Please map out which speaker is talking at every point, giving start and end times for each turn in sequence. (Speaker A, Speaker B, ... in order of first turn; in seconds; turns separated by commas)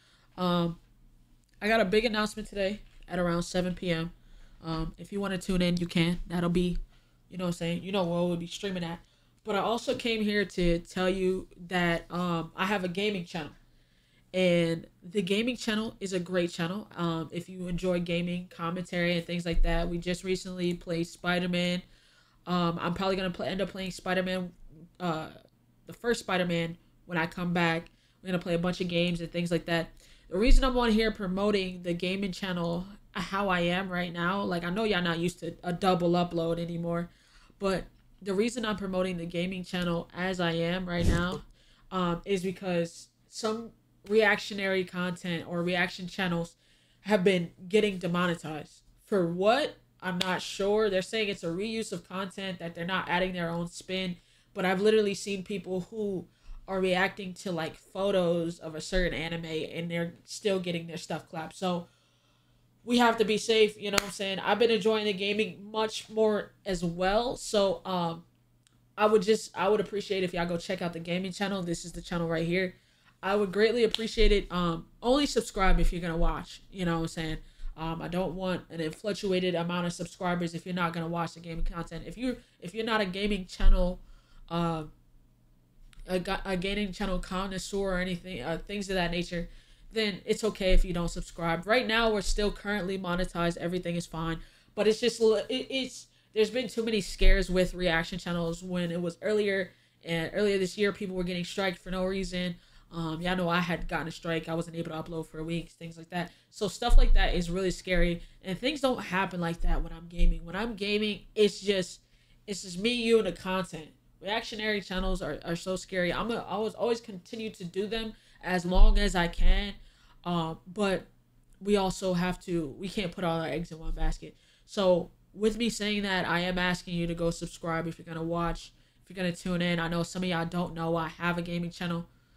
Speaker A: 0.4-0.8, Speaker A: 1.6-6.8, Speaker A: 7.3-13.6, Speaker A: 14.3-21.8, Speaker A: 22.4-61.9, Speaker A: 62.8-68.2, Speaker A: 69.0-84.9, Speaker A: 86.1-132.1